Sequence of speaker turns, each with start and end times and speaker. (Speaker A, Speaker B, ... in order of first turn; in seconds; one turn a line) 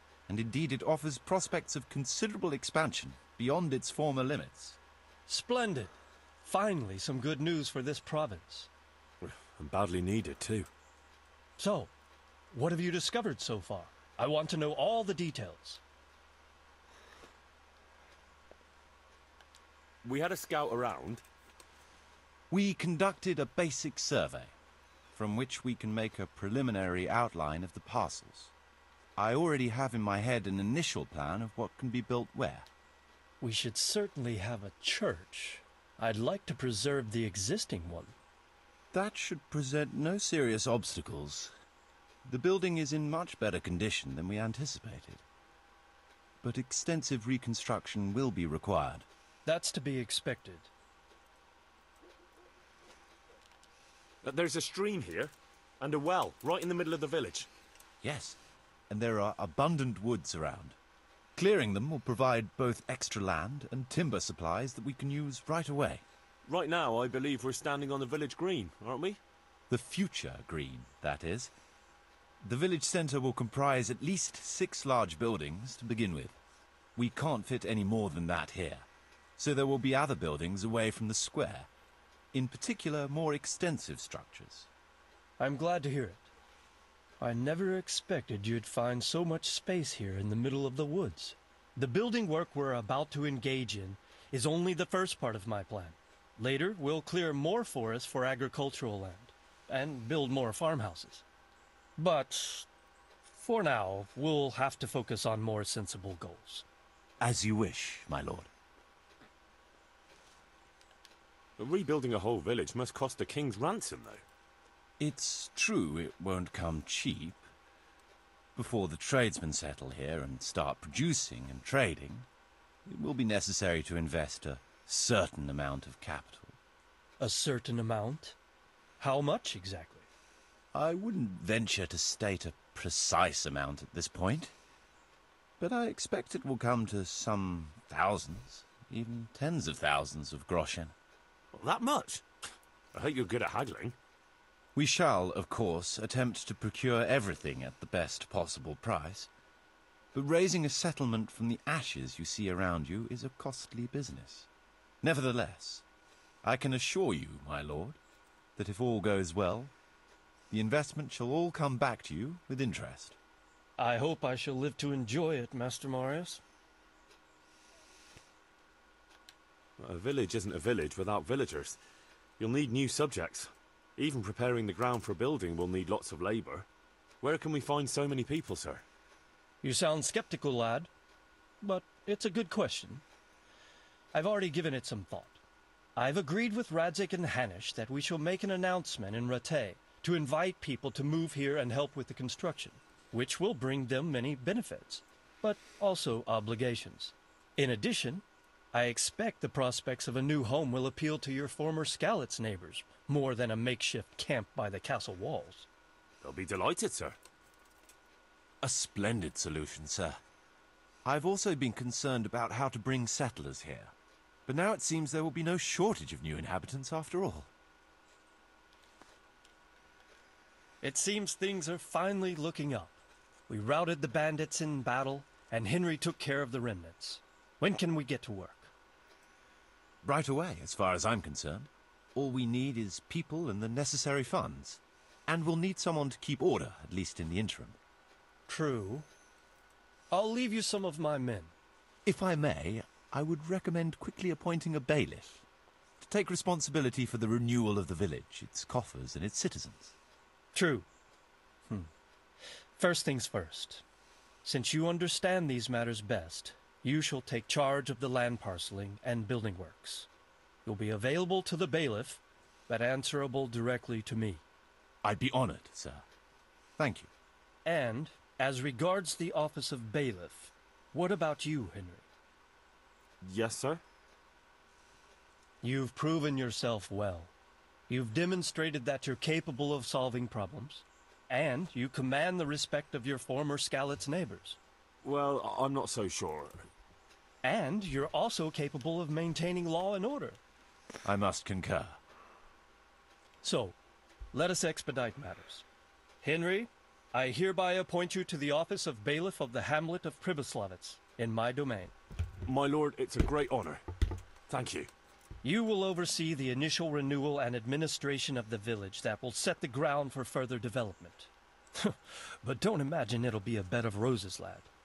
Speaker A: 0.3-4.8
Speaker B: 5.3-8.7
Speaker C: 9.2-10.7
Speaker B: 11.6-11.9
Speaker B: 12.5-15.8
Speaker C: 20.0-21.2
Speaker A: 22.5-24.5
Speaker A: 25.1-28.5
Speaker A: 29.2-32.7
Speaker B: 33.4-38.2
Speaker A: 38.9-41.5
Speaker A: 42.2-45.2
Speaker A: 46.4-49.1
Speaker B: 49.5-50.7
Speaker C: 54.2-57.5
Speaker A: 58.0-58.4
Speaker A: 58.9-60.8
Speaker A: 61.4-66.0
Speaker C: 66.5-69.2
Speaker A: 69.7-71.5
Speaker A: 72.4-76.4
Speaker A: 77.0-78.9
Speaker A: 79.4-81.7
Speaker A: 82.3-84.7
Speaker B: 85.4-86.3
Speaker B: 87.2-101.2
Speaker B: 102.0-102.7
Speaker B: 103.3-106.6
Speaker A: 107.2-108.5
Speaker C: 111.6-114.2
Speaker A: 115.0-117.4
Speaker A: 118.5-122.3
Speaker A: 122.9-126.6
Speaker B: 127.2-128.4
Speaker B: 129.0-130.1
Speaker A: 130.7-134.5
Speaker A: 135.6-140.9
Speaker C: 141.5-142.2
Speaker C: 142.9-144.0
Speaker A: 144.8-149.3
Speaker A: 150.1-154.5
Speaker A: 155.0-155.8
Speaker A: 156.4-158.0
Speaker A: 158.6-159.7
Speaker A: 160.5-163.2
Speaker B: 163.8-166.4
Speaker C: 169.8-171.8
Speaker C: 172.4-176.7
Speaker C: 177.2-178.8
Speaker B: 179.6-180.9
Speaker B: 181.6-183.0
Speaker B: 184.1-185.4
Speaker B: 186.0-205.7
Speaker C: 206.2-207.2
Speaker A: 208.6-210.2
Speaker A: 211.1-213.9
Speaker A: 214.5-217.5
Speaker B: 220.8-228.7
Speaker A: 230.0-237.8
Speaker B: 238.5-239.1
Speaker B: 240.1-241.5
Speaker A: 242.1-245.4
Speaker A: 246.0-249.9
Speaker B: 250.5-250.9
Speaker B: 252.8-253.8
Speaker B: 254.4-260.1
Speaker B: 260.6-264.4
Speaker A: 265.0-266.1
Speaker A: 266.8-267.1
Speaker B: 267.6-272.1
Speaker C: 273.2-273.8
Speaker B: 275.6-277.3
Speaker B: 277.9-284.6
Speaker C: 285.0-286.7
Speaker B: 287.4-290.4
Speaker A: 291.0-292.0
Speaker B: 293.4-293.8
Speaker B: 294.3-295.6
Speaker B: 296.2-301.9
Speaker C: 302.4-303.8
Speaker C: 304.5-304.9
Speaker B: 305.4-314.7